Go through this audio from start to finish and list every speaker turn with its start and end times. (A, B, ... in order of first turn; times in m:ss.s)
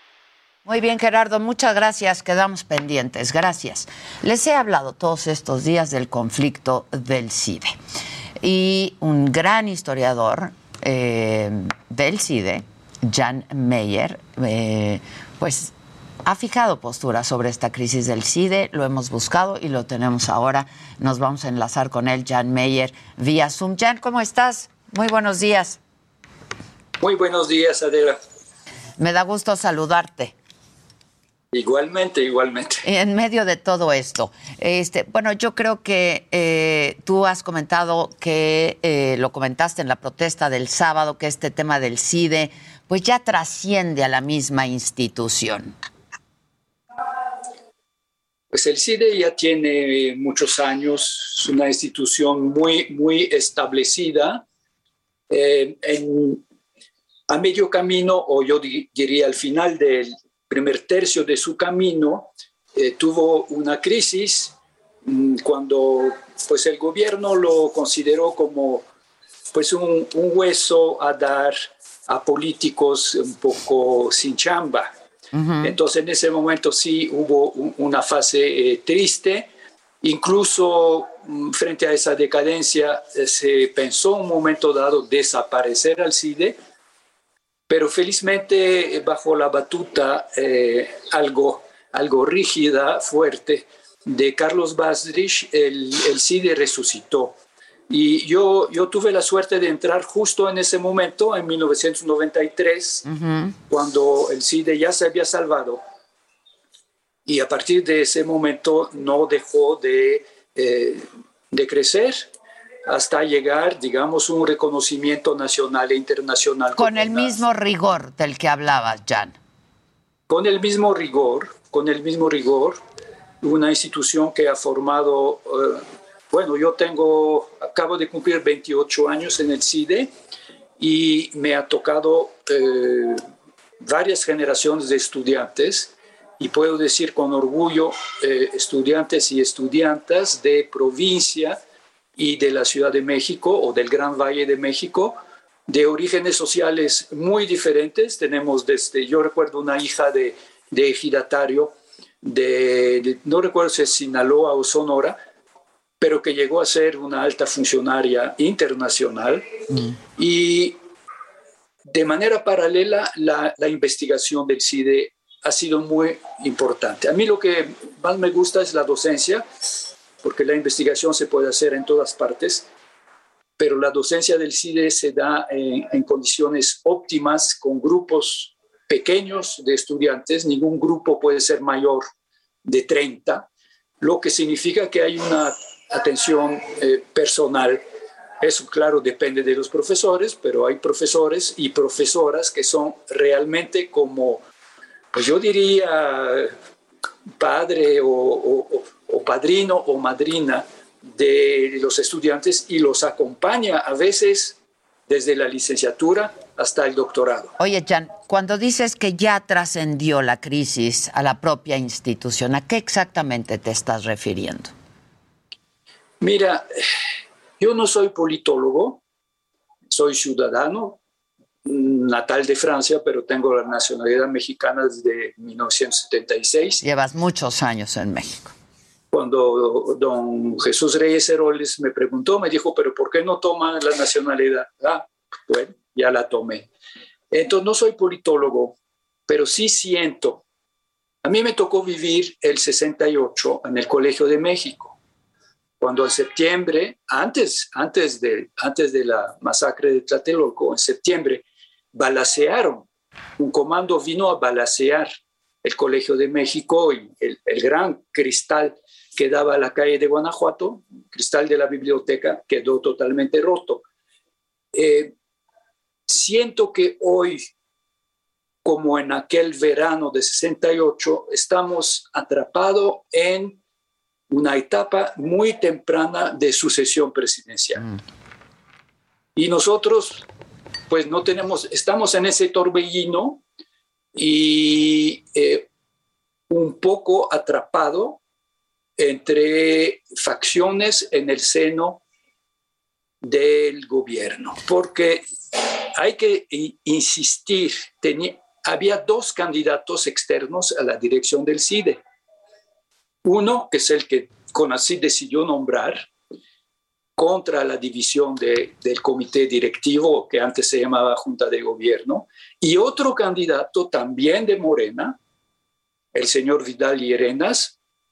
0:00.6-0:07.8 A
0:08.4-0:15.7 A
0:16.2-0:25.8 A
0:27.0-0:28.2 B
0:29.0-0:30.3 A
0:31.5-0:32.8 B
0:32.8-0:45.7 A
0:48.5-0:54.4 B
0:55.3-0:56.4 B
0:57.3-1:08.9 B
1:09.5-1:14.9 B
1:15.3-1:15.8 A
1:15.6-1:19.5 B
1:20.0-1:26.6 B
1:27.7-1:37.4 B
1:37.9-1:43.0 B
1:43.0-1:43.5 A
1:43.7-1:45.8 B
1:47.2-1:52.3 B
1:52.8-1:57.4 B
1:56.8-1:59.3 A
2:00.3-2:02.8 B
2:03.4-2:10.1 B
2:10.8-2:13.2 B
2:13.8-2:21.6 B
2:22.2-2:35.2 B
2:36.0-2:39.4 B
2:40.2-2:40.7 B
2:41.8-2:49.7 B
2:50.2-2:52.7 B
2:53.6-3:02.1 B
3:02.6-3:03.5 B
3:04.0-3:07.8 B
3:08.4-3:14.4 B
3:15.1-3:16.5 B
3:17.4-3:27.5 B
3:27.6-3:34.7 A
3:36.2-3:36.8 B
3:37.6-3:39.0 B
3:39.9-3:41.0 B
3:41.6-3:46.8 B
3:46.8-3:48.5 A
3:49.1-3:56.7 B
3:57.3-3:58.8 B
3:59.3-4:00.4 B
4:01.2-4:05.0 B
4:05.8-4:12.9 B
4:13.4-4:15.1 B
4:15.6-4:23.8 B
4:24.7-4:25.1 B
4:26.1-4:27.5 B
4:28.6-4:33.6 B
4:34.3-4:37.9 B
4:39.4-4:40.2 B
4:40.9-4:43.4 B
4:44.1-4:45.7 B
4:46.5-4:48.2 B
4:49.0-4:52.0 B
4:53.2-5:02.0 B
5:03.2-5:06.1 B
5:07.2-5:15.2 B
5:16.1-5:17.8 B